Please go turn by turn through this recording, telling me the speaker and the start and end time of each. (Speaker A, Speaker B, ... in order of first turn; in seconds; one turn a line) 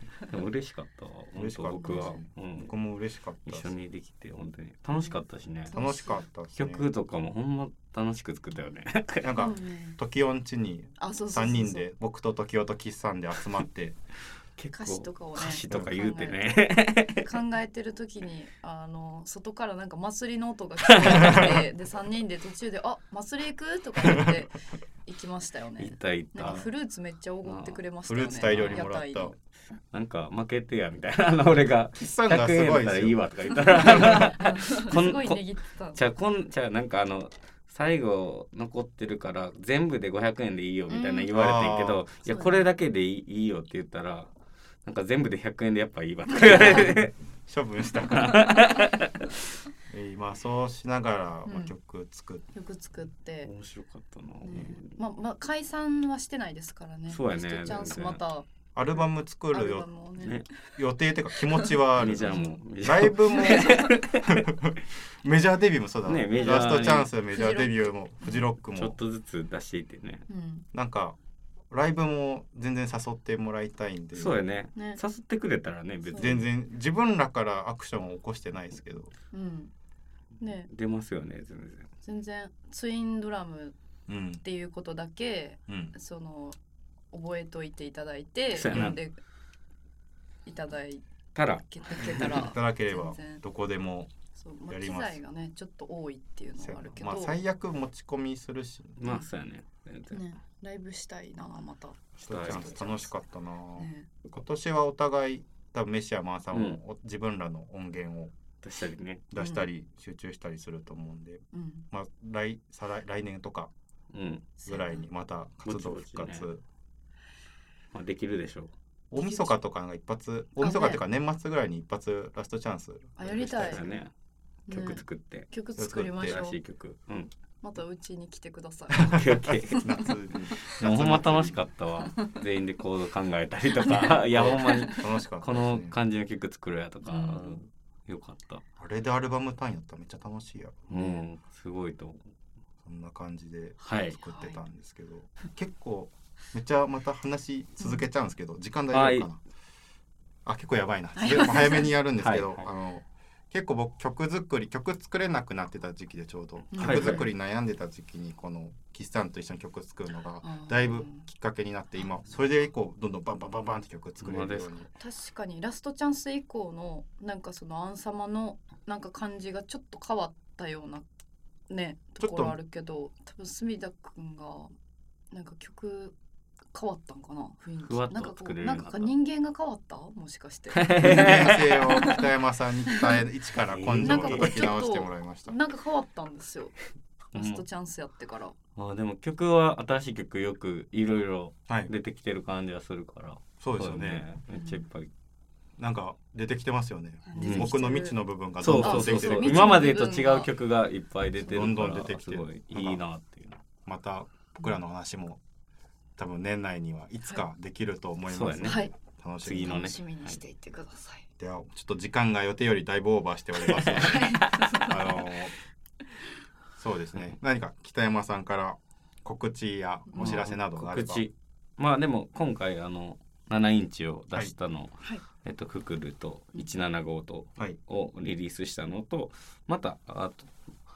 Speaker A: 0.2-2.7
Speaker B: 1.3-3.7
Speaker C: 1.8-2.2
Speaker A: 3.5-5.8
Speaker C: 5.7-6.2
Speaker B: 5.7-6.9
Speaker A: 6.6-9.3
Speaker B: 9.2-14.0
Speaker C: 9.4-10.0
Speaker C: 11.0-11.9
Speaker A: 14.6-17.2
Speaker C: 14.7-16.6
Speaker B: 15.7-15.9
Speaker C: 17.2-29.3
Speaker A: 20.9-21.4
Speaker B: 21.1-21.5
Speaker B: 24.0-24.4
Speaker A: 25.8-26.7
Speaker A: 27.4-27.8
Speaker B: 28.1-29.4
Speaker A: 28.4-28.8
Speaker A: 29.9-44.3
Speaker B: 32.0-34.3
Speaker C: 33.8-36.0
Speaker C: 40.9-41.3
Speaker B: 41.3-42.0
Speaker C: 42.2-42.7
Speaker A: 44.8-47.1
Speaker C: 46.4-46.9
Speaker B: 46.5-47.0
Speaker B: 47.5-48.4
Speaker A: 47.9-49.3
Speaker B: 49.9-52.5
Speaker C: 51.5-51.7
Speaker C: 52.5-53.5
Speaker A: 53.4-54.9
Speaker C: 54.4-58.5
Speaker A: 57.1-58.2
Speaker B: 58.8-59.9
Speaker C: 59.5-60.4
Speaker A: 60.2-60.5
Speaker B: 60.7-69.0
Speaker C: 61.5-62.6
Speaker A: 61.9-64.5
Speaker C: 63.2-63.9
Speaker A: 66.0-67.1
Speaker C: 67.3-67.9
Speaker A: 68.7-70.2
Speaker C: 70.3-70.7
Speaker B: 70.7-71.2
Speaker B: 71.7-74.4
Speaker A: 74.2-76.4
Speaker C: 76.1-76.4
Speaker B: 76.2-79.1
Speaker C: 79.3-79.7
Speaker C: 80.4-80.7
Speaker A: 80.7-81.9
Speaker C: 82.0-83.8
Speaker B: 84.1-84.4
Speaker C: 84.4-86.6
Speaker B: 85.7-85.9
Speaker C: 87.1-89.2
Speaker A: 88.5-89.0
Speaker B: 88.7-89.0
Speaker C: 90.5-93.4
Speaker A: 91.3-92.5
Speaker B: 92.2-94.1
Speaker C: 94.3-97.4
Speaker B: 94.7-95.2
Speaker B: 96.6-99.0
Speaker A: 99.0-100.2
Speaker C: 100.1-103.2
Speaker B: 102.2-108.3
Speaker A: 102.3-102.7
Speaker C: 103.8-104.1
Speaker A: 106.5-106.8
Speaker A: 108.6-109.2
Speaker B: 109.3-113.7
Speaker C: 109.4-109.7
Speaker C: 111.5-111.8
Speaker A: 114.1-114.5
Speaker C: 114.6-115.0
Speaker B: 114.7-116.6
Speaker A: 115.6-116.5
Speaker A: 117.9-118.7
Speaker B: 119.1-124.0
Speaker C: 119.2-119.5
Speaker C: 120.6-121.0
Speaker C: 123.2-123.8
Speaker A: 123.3-124.1
Speaker C: 124.7-126.6
Speaker A: 124.7-125.5
Speaker B: 125.8-126.4
Speaker A: 126.2-127.3
Speaker C: 127.6-130.0
Speaker A: 129.0-138.6
Speaker B: 129.7-131.6
Speaker C: 133.8-135.0
Speaker B: 134.3-135.9
Speaker C: 137.1-137.6
Speaker B: 138.8-140.9
Speaker A: 140.9-142.2
Speaker C: 140.9-141.2
Speaker B: 142.8-149.4
Speaker A: 143.8-144.2
Speaker C: 144.2-144.6
Speaker A: 148.9-149.3
Speaker B: 150.4-164.9
Speaker C: 151.2-151.9
Speaker A: 152.2-152.7
Speaker C: 156.7-157.2
Speaker A: 156.8-157.3
Speaker C: 160.4-161.2
Speaker A: 164.2-164.7
Speaker C: 165.0-171.1
Speaker C: 171.7-174.7
Speaker B: 172.2-172.5
Speaker C: 175.3-176.2
Speaker C: 176.7-182.2
Speaker A: 177.8-179.1
Speaker A: 180.7-181.9
Speaker B: 181.0-185.5
Speaker A: 183.7-184.7
Speaker C: 184.0-186.7
Speaker C: 187.3-188.5
Speaker A: 187.3-187.6
Speaker A: 188.8-195.1
Speaker B: 193.6-194.2
Speaker C: 194.5-194.8
Speaker B: 195.8-199.8
Speaker C: 197.3-198.2
Speaker A: 197.3-197.7
Speaker A: 198.6-203.6
Speaker C: 198.7-200.5
Speaker B: 201.4-203.0
Speaker B: 203.8-205.4
Speaker B: 206.2-209.8
Speaker A: 208.3-208.9
Speaker C: 208.7-208.9
Speaker A: 209.4-210.4
Speaker C: 209.5-211.2
Speaker B: 211.4-215.5
Speaker C: 213.9-215.1
Speaker A: 214.8-215.1
Speaker B: 216.8-221.2
Speaker A: 220.2-230.5